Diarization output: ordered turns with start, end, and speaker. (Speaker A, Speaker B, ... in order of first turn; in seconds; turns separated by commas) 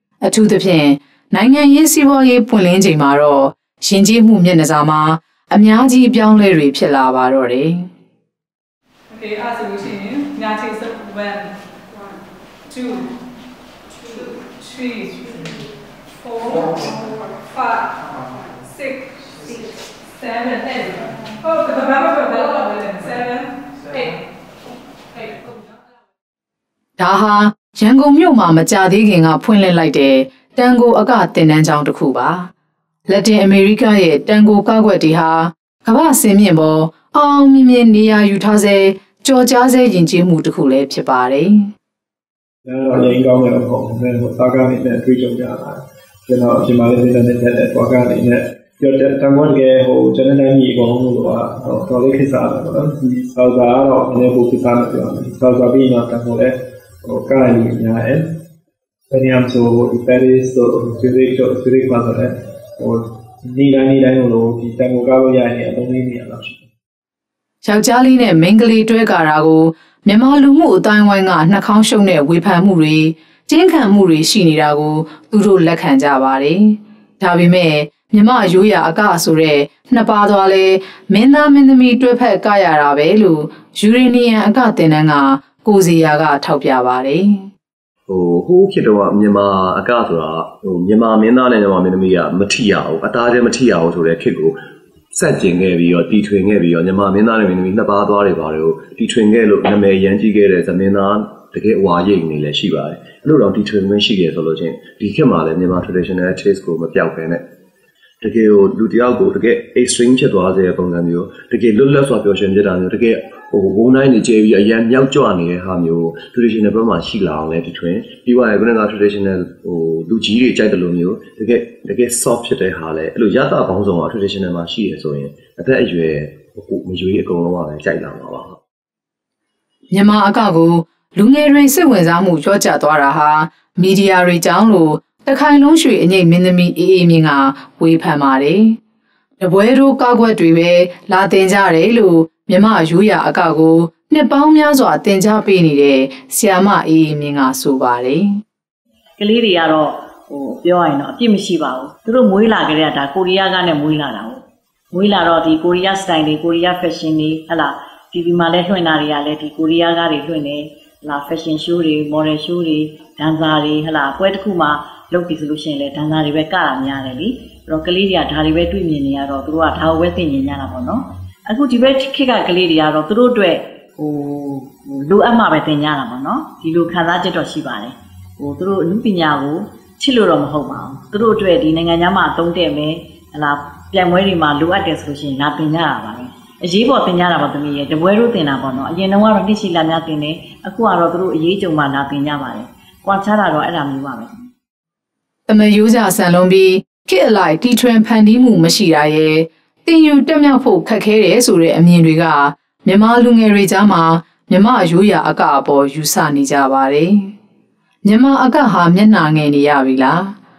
Speaker A: 0.2-7.9, Speaker B: 9.2-11.5, Speaker B: 12.7-13.1, Speaker B: 14.6-15.4, Speaker B: 16.3-16.9, Speaker B: 17.5-17.8, Speaker B: 20.2-24.1, Speaker A: 27.0-32.5, Speaker A: 33.1-41.7, Speaker C: 42.6-58.3, Speaker C: 59.1-66.7, Speaker A: 67.6-87.5, Speaker D: 88.1-94.6, Speaker D: 95.1-107.4, Speaker D: 108.2-128.6, Speaker A: 129.9-138.8, Speaker A: 139.4-148.3, Speaker E: 149.2-194.5, Speaker A: 195.5-207.3, Speaker A: 208.1-210.3